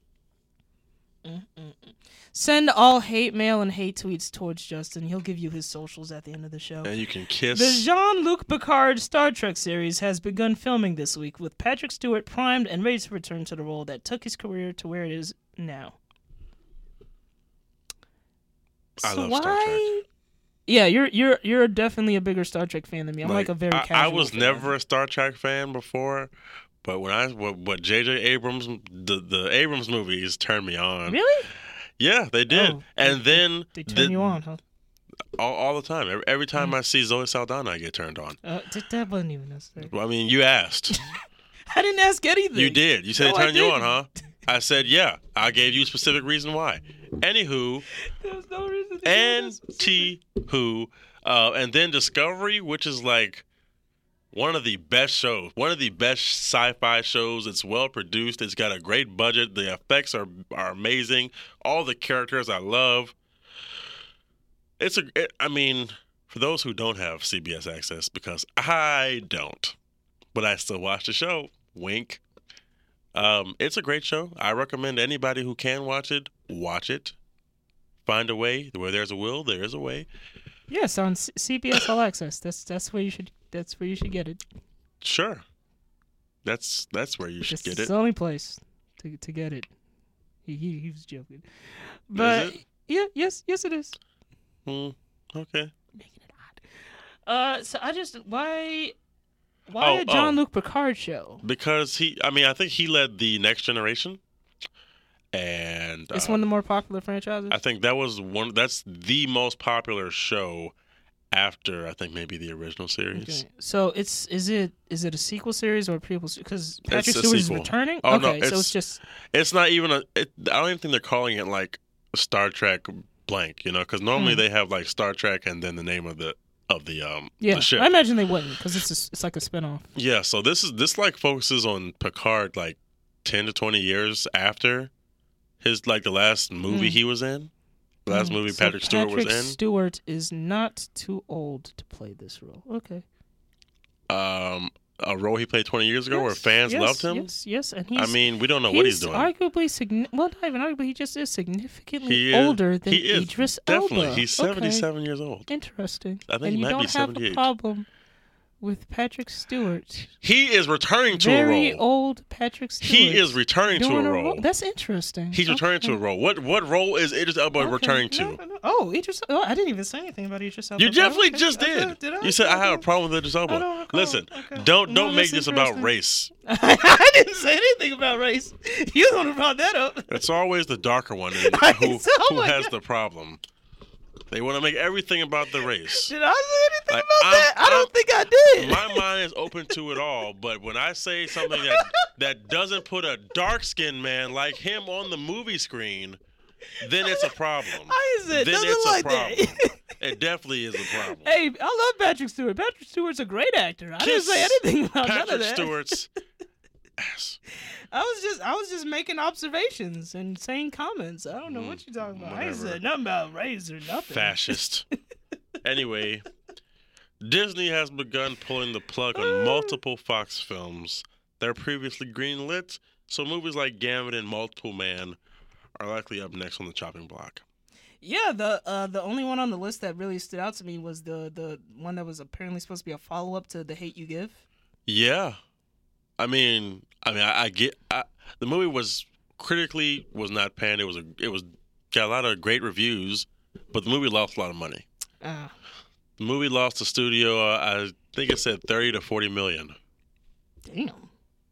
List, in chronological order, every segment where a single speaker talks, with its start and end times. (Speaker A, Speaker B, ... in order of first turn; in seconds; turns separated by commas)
Speaker A: 1.2-6.9, Speaker B: 6.8-7.9, Speaker A: 7.5-16.0, Speaker B: 19.0-19.9, Speaker A: 19.0-20.0, Speaker A: 20.7-24.7, Speaker B: 23.2-26.3, Speaker B: 26.8-34.4, Speaker A: 31.1-31.5, Speaker A: 32.5-34.6, Speaker B: 35.4-38.4, Speaker A: 38.4-39.9, Speaker B: 39.8-41.0, Speaker A: 41.7-44.0, Speaker B: 42.5-47.8, Speaker A: 48.0-50.1, Speaker B: 49.0-53.4, Speaker B: 54.3-63.1, Speaker B: 64.8-69.8, Speaker B: 70.3-72.2, Speaker B: 73.1-77.2, Speaker B: 78.0-80.1, Speaker A: 80.7-84.4, Speaker B: 85.0-85.4, Speaker B: 86.4-87.9, Speaker A: 87.5-89.7, Speaker A: 90.5-94.0, Speaker B: 92.1-92.6, Speaker B: 94.7-95.7, Speaker A: 96.0-96.6, Speaker A: 97.3-98.9, Speaker A: 99.7-101.4, Speaker B: 99.8-100.4, Speaker B: 101.4-104.2, Speaker B: 105.3-106.4, Speaker A: 106.1-107.6, Speaker B: 107.5-110.7, Speaker B: 111.3-113.4, Speaker A: 113.1-119.0, Speaker B: 116.9-118.7, Speaker B: 119.3-127.9, Speaker A: 124.1-124.4, Speaker A: 127.4-129.9, Speaker B: 129.9-134.9, Speaker B: 135.6-137.5, Speaker A: 136.7-137.0, Speaker B: 138.1-139.6, Speaker A: 138.1-143.0, Speaker B: 144.1-147.3, Speaker A: 146.1-154.9, Speaker B: 147.9-149.3, Speaker B: 152.0-155.5, Speaker A: 155.5-157.9, Speaker B: 156.3-157.5, Speaker A: 158.6-160.1, Speaker B: 160.2-161.8, Speaker A: 161.1-166.0, Speaker B: 162.8-164.5, Speaker B: 165.3-168.4, Speaker A: 167.6-172.8, Speaker B: 170.8-176.3, Speaker A: 173.5-175.9, Speaker A: 176.4-180.2, Speaker B: 180.1-183.4, Speaker A: 181.3-182.7, Speaker B: 184.3-186.1, Speaker A: 185.9-189.0, Speaker B: 186.9-187.9, Speaker B: 188.5-196.2, Speaker A: 191.3-192.1, Speaker B: 196.8-201.3, Speaker A: 197.0-197.3, Speaker A: 197.8-199.8, Speaker A: 200.8-206.0, Speaker B: 204.0-206.1, Speaker B: 207.0-207.4, Speaker A: 207.9-214.6, Speaker B: 211.4-212.8, Speaker B: 214.0-214.8, Speaker B: 215.6-216.2, Speaker B: 217.2-225.2, Speaker A: 219.1-219.8, Speaker B: 225.8-227.4, Speaker A: 228.0-234.4, Speaker B: 234.8-235.4, Speaker B: 236.2-244.8, Speaker A: 245.2-245.5, Speaker B: 246.2-249.8, Speaker A: 250.6-251.1